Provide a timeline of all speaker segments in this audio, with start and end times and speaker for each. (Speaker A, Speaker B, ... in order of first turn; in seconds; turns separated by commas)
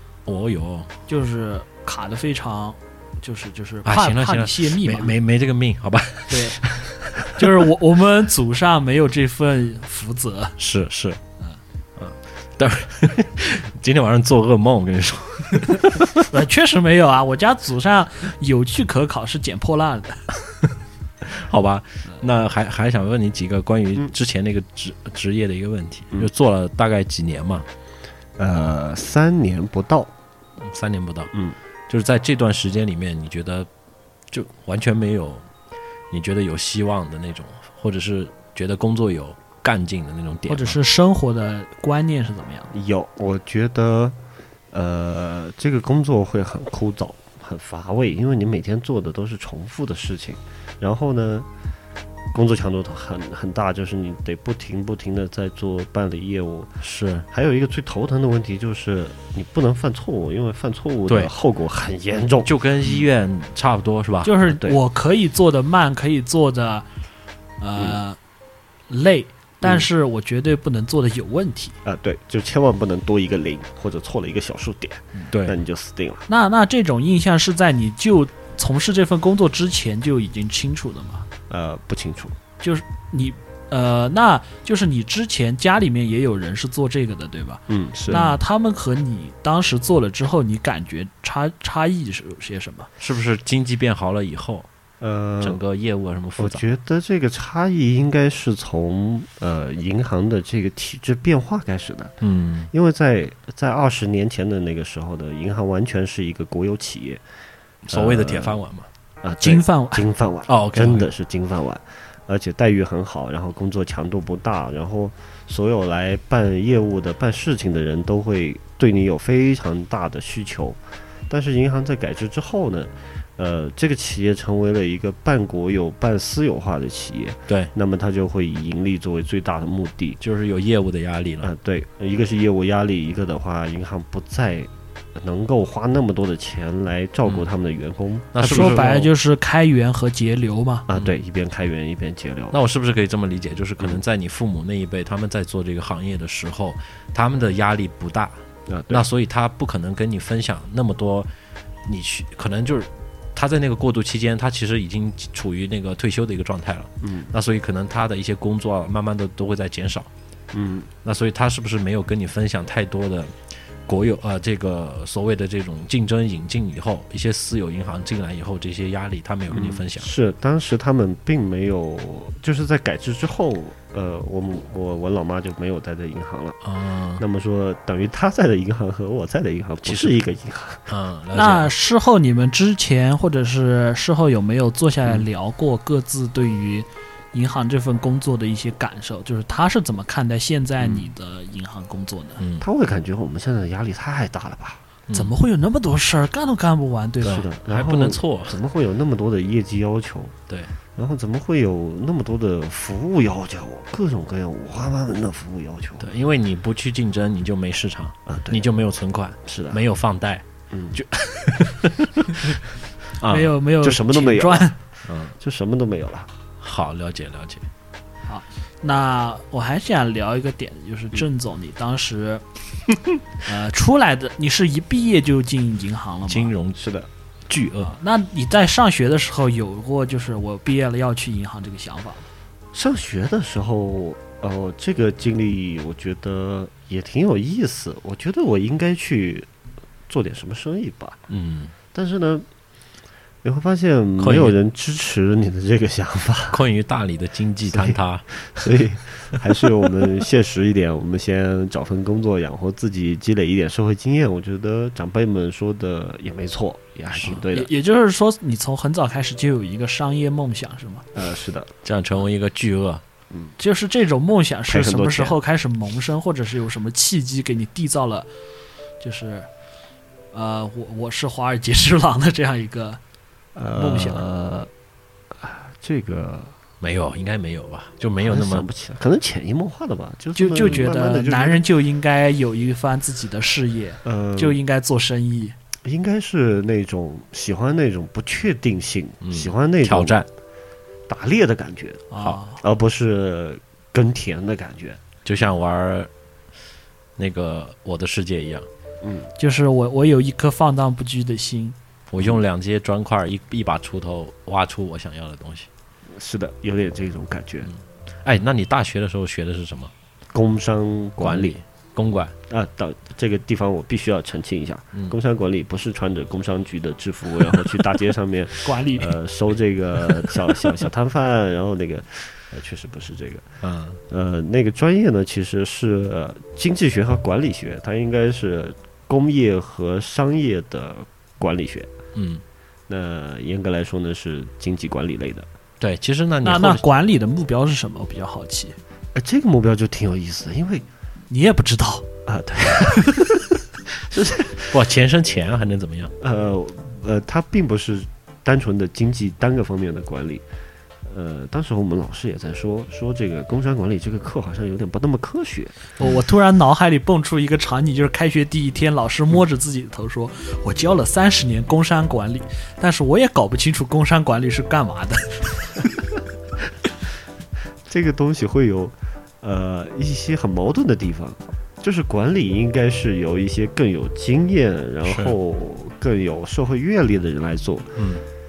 Speaker A: 0.3-0.9, Speaker B: 1.1-5.1, Speaker A: 3.9-6.9, Speaker B: 6.3-6.6, Speaker B: 7.2-10.6, Speaker A: 10.6-11.2, Speaker A: 12.0-16.2, Speaker B: 16.3-20.2, Speaker A: 21.3-27.7, Speaker C: 28.4-30.1, Speaker A: 30.6-31.3, Speaker A: 31.9-33.7, Speaker A: 34.3-35.5, Speaker A: 36.1-40.8, Speaker B: 40.5-42.7, Speaker C: 42.7-44.2, Speaker C: 44.7-51.5, Speaker C: 52.3-62.5, Speaker A: 56.8-57.3, Speaker A: 62.5-64.3, Speaker B: 64.2-66.9, Speaker C: 64.5-64.8, Speaker B: 67.6-68.2, Speaker B: 68.9-71.8, Speaker C: 69.6-69.9, Speaker C: 71.8-76.2, Speaker B: 76.3-81.3, Speaker C: 81.5-82.4, Speaker B: 82.6-92.9, Speaker C: 87.7-88.4, Speaker A: 93.0-94.7, Speaker C: 95.0-95.6, Speaker A: 95.4-96.7, Speaker C: 96.4-102.2, Speaker A: 102.2-102.7, Speaker C: 102.7-107.2, Speaker A: 107.9-108.9, Speaker C: 107.9-108.6, Speaker C: 109.2-130.2, Speaker B: 109.4-110.0, Speaker A: 110.5-111.1, Speaker A: 130.2-131.5, Speaker C: 131.4-138.9, Speaker A: 138.3-139.1, Speaker B: 138.4-140.9, Speaker C: 140.9-142.6, Speaker A: 142.5-151.3, Speaker C: 148.7-149.1, Speaker A: 151.9-160.1, Speaker C: 157.0-157.3, Speaker C: 160.5-160.9, Speaker A: 161.0-163.4, Speaker A: 163.9-170.1, Speaker C: 169.5-176.6, Speaker A: 176.6-177.2, Speaker C: 177.2-180.9, Speaker A: 179.8-180.2, Speaker A: 180.9-181.7, Speaker B: 181.3-192.4, Speaker C: 190.8-191.1, Speaker A: 192.4-192.7, Speaker C: 192.6-194.8, Speaker A: 195.1-195.3, Speaker B: 195.1-197.4, Speaker A: 197.2-198.6, Speaker C: 197.2-200.3, Speaker C: 201.0-206.1, Speaker A: 206.0-212.6, Speaker C: 208.3-208.6, Speaker C: 209.4-209.8, Speaker C: 210.7-211.0, Speaker A: 213.2-213.6, Speaker B: 213.3-214.8, Speaker C: 213.8-214.8, Speaker A: 215.1-215.4, Speaker C: 215.4-216.3, Speaker A: 216.6-217.7, Speaker B: 218.3-222.4, Speaker B: 223.4-226.5, Speaker A: 226.3-226.8, Speaker C: 226.8-227.1, Speaker A: 227.5-227.9, Speaker B: 227.8-232.3, Speaker C: 232.7-239.5, Speaker C: 240.1-241.2, Speaker A: 241.3-241.7, Speaker C: 241.9-242.5, Speaker C: 243.4-246.6, Speaker A: 244.2-244.6, Speaker A: 246.5-248.7, Speaker C: 247.7-257.7, Speaker B: 257.2-261.1, Speaker C: 261.1-261.7, Speaker A: 261.9-263.0, Speaker B: 263.6-268.3, Speaker C: 264.7-265.4, Speaker B: 269.0-269.5, Speaker B: 270.3-273.0, Speaker C: 273.6-274.7, Speaker B: 273.7-274.2, Speaker C: 275.3-276.6, Speaker A: 276.8-278.7, Speaker C: 278.2-281.6, Speaker B: 280.4-285.6, Speaker C: 284.1-284.6, Speaker C: 285.8-290.2, Speaker A: 289.2-290.3, Speaker C: 291.1-295.0, Speaker B: 292.1-292.6, Speaker A: 295.2-296.1, Speaker A: 297.2-298.7, Speaker C: 299.0-299.3, Speaker B: 299.4-301.8, Speaker A: 302.1-305.7, Speaker C: 306.1-307.7, Speaker A: 307.7-309.9, Speaker C: 310.3-311.6, Speaker A: 311.2-312.3, Speaker C: 312.5-323.5, Speaker B: 318.6-319.1, Speaker A: 323.6-324.0, Speaker C: 324.1-331.9, Speaker A: 332.1-332.4, Speaker C: 332.9-335.5, Speaker A: 335.8-336.8, Speaker B: 336.4-338.8, Speaker C: 339.1-340.9, Speaker B: 341.3-342.1, Speaker C: 342.3-344.7, Speaker A: 344.7-346.1, Speaker C: 346.2-350.4, Speaker C: 351.1-355.7, Speaker B: 356.0-365.7, Speaker C: 367.9-378.0, Speaker A: 375.1-375.4, Speaker A: 378.0-378.2